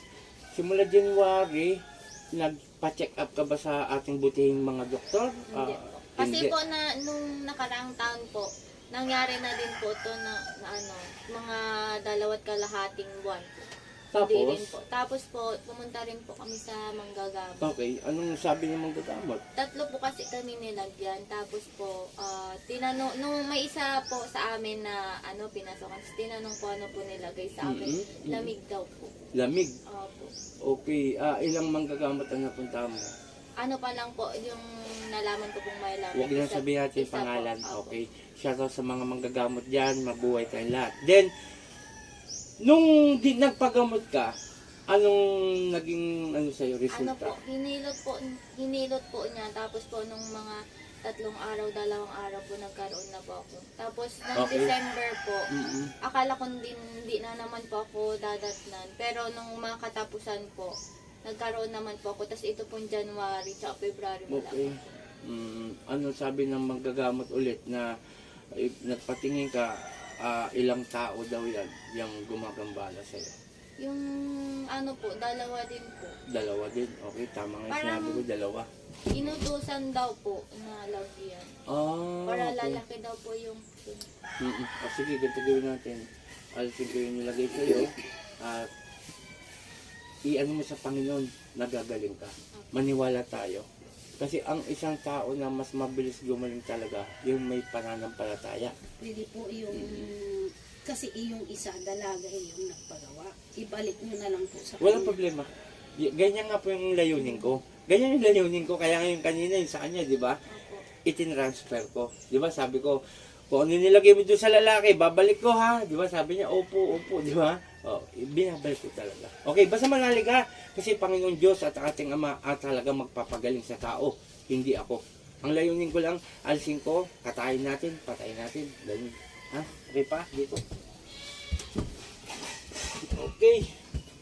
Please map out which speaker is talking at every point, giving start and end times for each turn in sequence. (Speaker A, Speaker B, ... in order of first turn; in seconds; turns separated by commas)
Speaker A: 0.6-1.7, Speaker A: 2.4-6.5, Speaker B: 5.5-13.5, Speaker A: 14.1-14.7, Speaker B: 14.2-17.7, Speaker A: 17.6-19.4, Speaker B: 19.6-29.1, Speaker A: 27.6-28.5, Speaker A: 29.4-29.7, Speaker B: 29.9-30.3, Speaker A: 30.7-33.1, Speaker B: 33.6-38.0, Speaker A: 36.1-41.3, Speaker A: 42.6-44.3, Speaker A: 44.9-47.4, Speaker B: 46.9-55.5, Speaker A: 54.4-54.7, Speaker A: 55.5-55.9, Speaker B: 56.0-60.7, Speaker B: 61.3-65.0, Speaker A: 64.3-67.9, Speaker A: 68.6-73.3, Speaker B: 73.8-76.1, Speaker A: 76.3-79.5, Speaker B: 77.7-78.2, Speaker B: 79.1-81.5, Speaker A: 81.7-82.8, Speaker B: 82.3-84.1, Speaker A: 84.4-88.7, Speaker A: 90.3-93.7, Speaker B: 92.6-92.9, Speaker A: 94.2-98.7, Speaker C: 99.0-105.1, Speaker A: 99.7-100.1, Speaker A: 104.8-110.4, Speaker B: 110.5-110.8, Speaker A: 111.0-113.0, Speaker A: 113.5-130.6, Speaker A: 133.1-133.6